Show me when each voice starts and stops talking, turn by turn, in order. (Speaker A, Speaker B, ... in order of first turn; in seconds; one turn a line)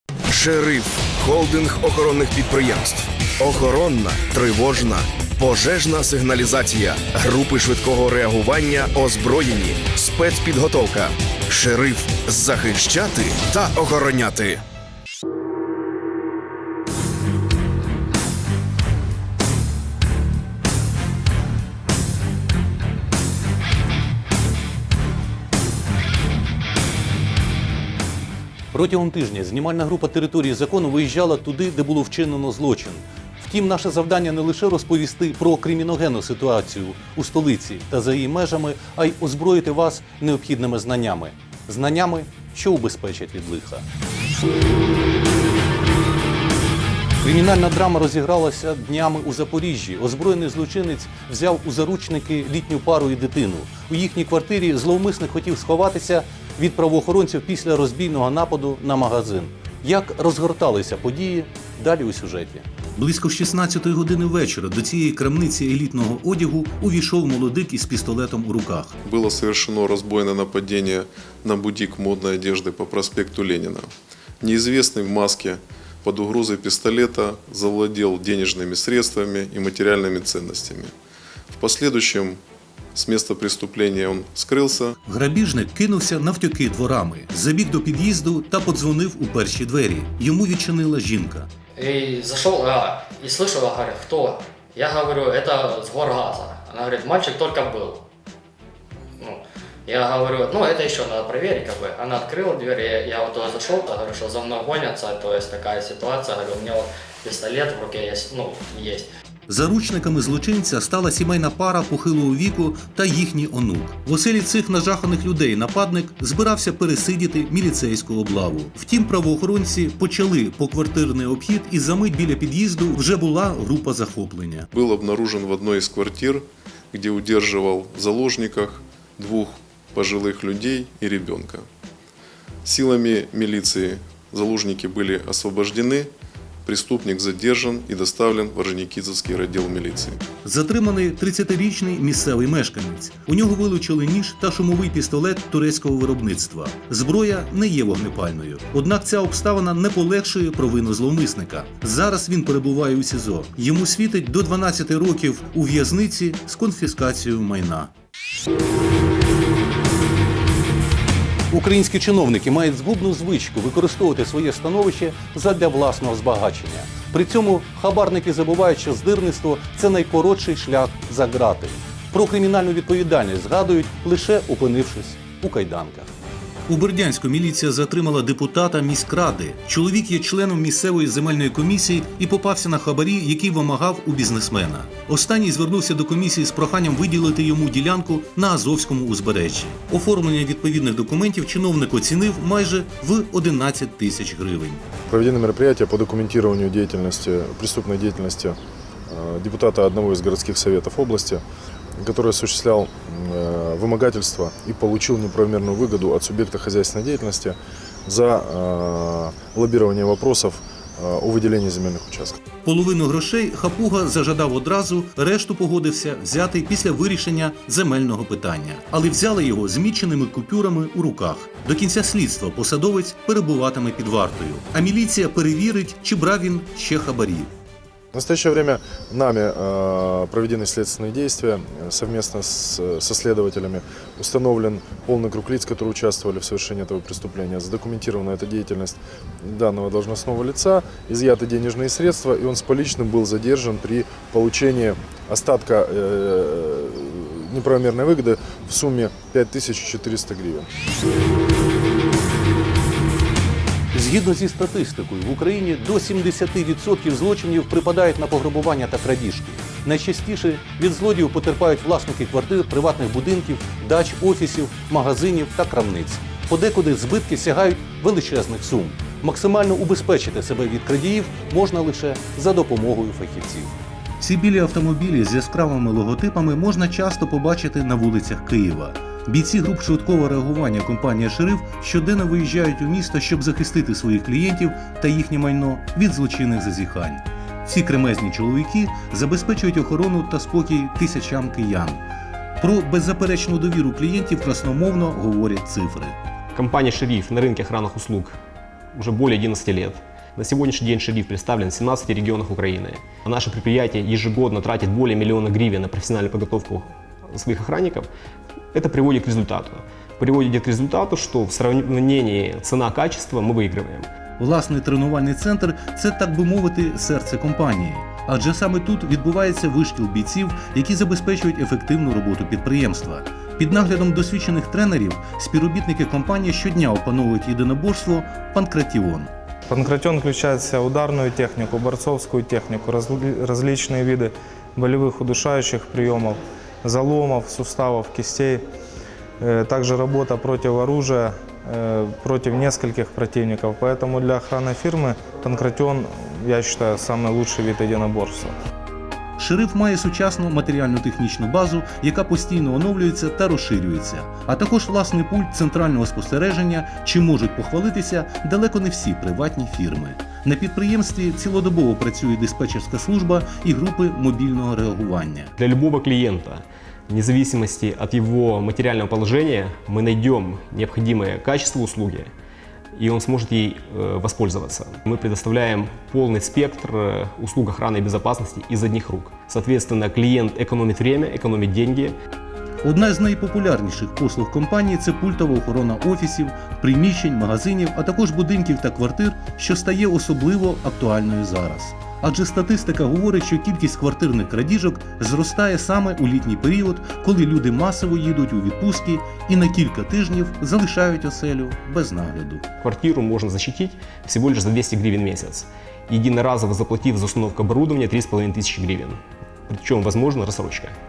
Speaker A: 0.3-14.6
Speaker B: 28.7-43.9
Speaker B: 47.2-69.0
Speaker C: 69.0-80.9
Speaker C: 81.5-82.4
Speaker C: 83.0-84.9
Speaker B: 85.0-91.5
Speaker D: 92.0-98.0
Speaker D: 99.9-106.6
Speaker D: 107.2-108.8
Speaker B: 109.5-124.7
Speaker C: 124.7-131.7
Speaker C: 132.7-136.1
Speaker C: 136.7-140.2
Speaker B: 140.4-157.9
Speaker B: 161.5-176.1
Speaker B: 176.7-194.8
Speaker E: 195.1-198.6
Speaker E: 199.1-201.4
Speaker E: 202.0-212.4
Speaker B: 212.6-227.5
Speaker E: 228.1-250.7
Speaker B: 253.9-292.0
Speaker B: 292.6-296.2
Speaker F: 296.6-298.4
Speaker F: 298.9-308.1
Speaker F: 308.7-314.1
Speaker B: 314.4-329.3
Speaker G: 329.7-338.6
Speaker G: 339.4-348.6
Speaker B: 349.4-365.5
Speaker F: 365.6-372.3
Speaker F: 373.0-382.2
Speaker B: 382.8-402.6
Speaker F: 402.8-410.9